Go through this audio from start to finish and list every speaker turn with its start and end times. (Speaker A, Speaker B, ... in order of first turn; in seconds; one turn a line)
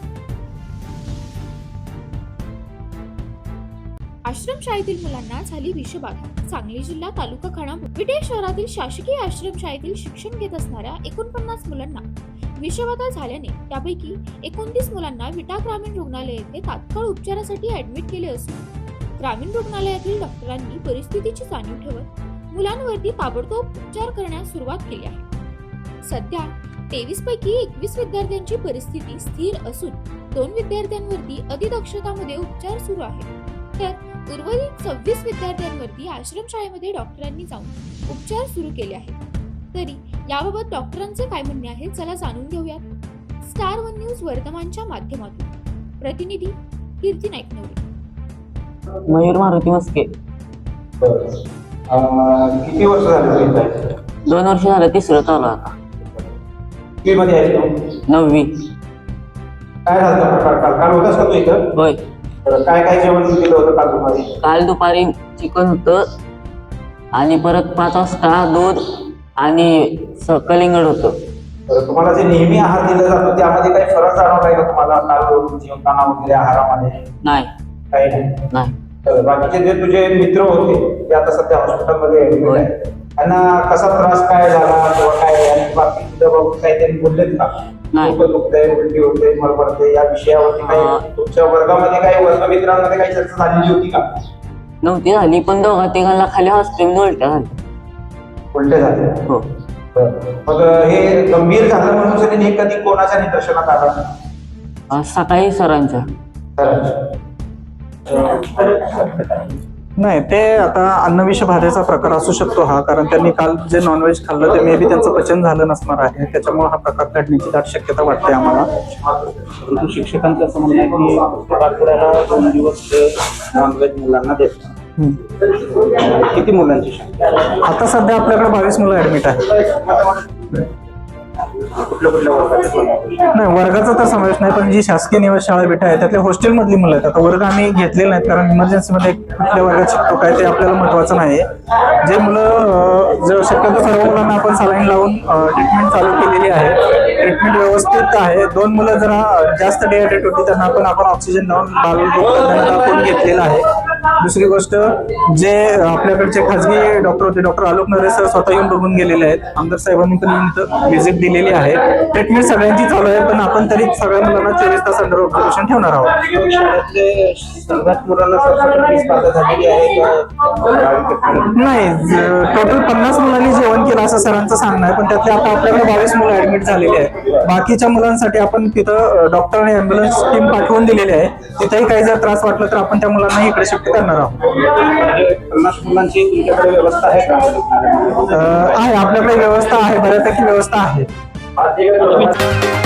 Speaker A: 4.2-12.0
Speaker A: 12.6-18.7
Speaker A: 19.2-25.3
Speaker A: 26.1-39.2
Speaker A: 39.7-42.8
Speaker A: 43.4-47.8
Speaker B: 49.1-50.1
Speaker C: 51.0-51.4
Speaker C: 51.9-53.7
Speaker B: 54.3-55.7
Speaker C: 57.0-57.7
Speaker B: 58.1-58.5
Speaker C: 59.9-61.6
Speaker C: 62.4-64.3
Speaker B: 64.4-66.0
Speaker B: 67.1-68.8
Speaker B: 69.4-71.2
Speaker C: 71.7-77.0
Speaker B: 77.2-77.5
Speaker C: 77.9-78.3
Speaker C: 79.0-94.0
Speaker B: 87.9-88.2
Speaker B: 90.6-91.0
Speaker B: 94.8-97.5
Speaker C: 98.5-99.2
Speaker C: 99.9-104.0
Speaker B: 104.9-106.0
Speaker C: 106.6-107.0
Speaker C: 108.1-109.2
Speaker D: 110.0-118.7
Speaker C: 119.3-124.7
Speaker C: 125.5-127.5
Speaker D: 127.6-129.5
Speaker C: 129.6-130.6
Speaker C: 131.6-133.3
Speaker D: 133.3-141.4
Speaker D: 142.0-153.6
Speaker D: 154.2-166.2
Speaker C: 166.2-171.5
Speaker D: 171.5-184.5
Speaker C: 184.6-188.7
Speaker D: 188.3-191.1
Speaker C: 191.6-192.3